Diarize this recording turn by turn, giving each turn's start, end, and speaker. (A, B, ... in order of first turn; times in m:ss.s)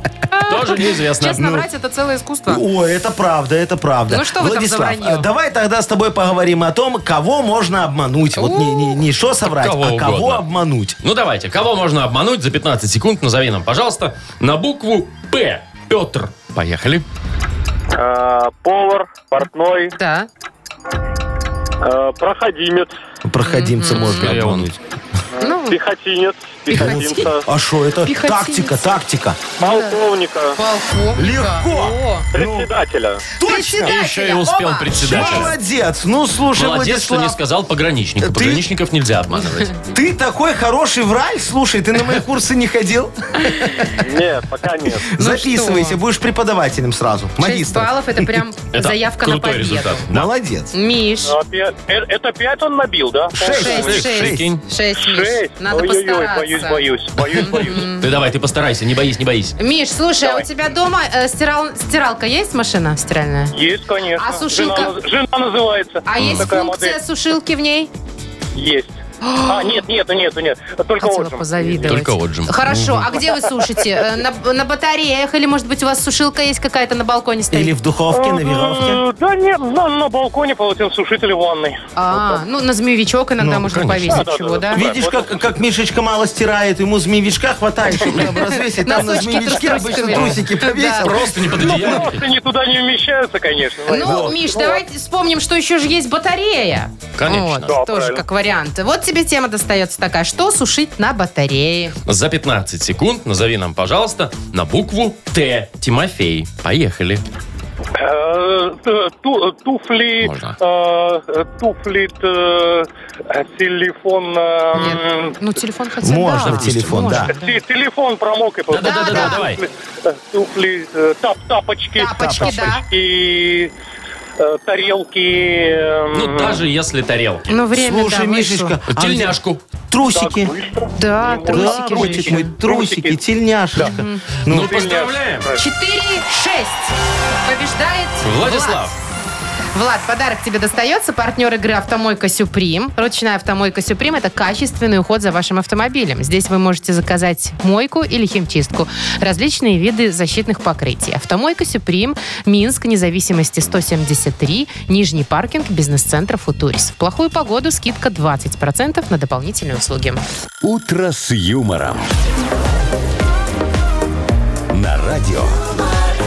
0:00.3-0:02.6 A
0:00.5-0:01.5 B
0:01.3-0:01.6 C
0:02.5-0:11.0 C
0:04.1-0:05.3 A
0:08.4-0:09.0 A
0:09.5-0:10.4 B
0:11.0-0:17.0 B
0:17.9-0:20.0 D
0:20.0-0:20.3 A
0:21.8-0:22.9 D
0:23.2-0:24.8 C
0:23.4-0:24.3 A
0:23.9-0:24.7 B
0:25.3-0:27.5 D
0:25.4-0:25.8 A
0:26.7-0:27.3 A
0:26.7-0:29.5 C
0:28.0-0:28.9 A
0:29.6-0:30.6 D
0:29.6-0:30.0 A
0:30.5-0:32.3 A
0:31.1-0:32.7 C
0:32.3-0:33.2 D
0:33.3-0:34.0 C
0:33.4-0:35.5 A
0:33.8-0:35.6 B
0:35.0-0:37.4 C
0:36.6-0:39.7 B
0:38.2-0:38.7 C
0:39.9-0:44.0 C
0:43.5-0:43.8 A
0:43.8-0:45.1 D
0:44.9-0:48.4 C
0:45.2-0:46.0 A
0:47.4-0:50.0 A
0:48.7-0:50.3 B
0:50.1-0:50.7 C
0:50.7-0:51.4 A
0:51.2-0:54.0 D
0:53.3-0:54.5 C
0:53.5-0:58.1 A
0:53.5-0:54.6 B
0:54.9-0:57.9 D
0:58.0-0:59.6 B
0:59.6-1:03.6 A
1:03.5-1:07.0 D
1:04.1-1:05.0 A
1:06.0-1:07.9 A
1:06.2-1:06.5 B
1:08.5-1:12.0 D
1:09.2-1:09.8 A
1:11.0-1:17.7 A
1:11.8-1:12.5 B
1:12.7-1:13.1 C
1:17.5-1:19.0 C
1:18.1-1:22.4 D
1:22.0-1:24.8 A
1:23.4-1:23.7 C
1:23.7-1:24.3 B
1:24.0-1:25.5 D
1:24.7-1:32.1 C
1:28.1-1:31.1 A
1:30.9-1:32.3 B
1:31.6-1:34.8 D
1:33.9-1:42.0 A
1:34.0-1:34.4 C
1:37.2-1:37.8 B
1:37.7-1:38.2 D
1:42.0-1:47.2 B
1:47.9-1:55.4 D
1:50.2-1:50.6 B
1:54.7-1:57.6 A
1:56.0-1:57.3 C
1:56.4-1:57.2 B
1:57.3-2:03.7 D
1:58.7-1:59.6 B
1:58.8-1:59.4 A
2:02.0-2:02.8 A
2:02.1-2:02.8 C
2:04.4-2:06.6 D
2:06.1-2:07.6 B
2:07.5-2:08.7 A
2:07.7-2:10.5 C
2:08.9-2:09.6 B
2:10.1-2:13.2 D
2:10.9-2:12.5 A
2:11.4-2:14.8 C
2:13.8-2:14.2 A
2:14.5-2:15.6 B
2:14.7-2:15.6 D
2:15.6-2:16.9 A
2:17.4-2:18.9 A
2:18.2-2:19.0 B
2:19.7-2:40.2 A
2:40.6-2:42.1 E
2:44.7-2:45.6 E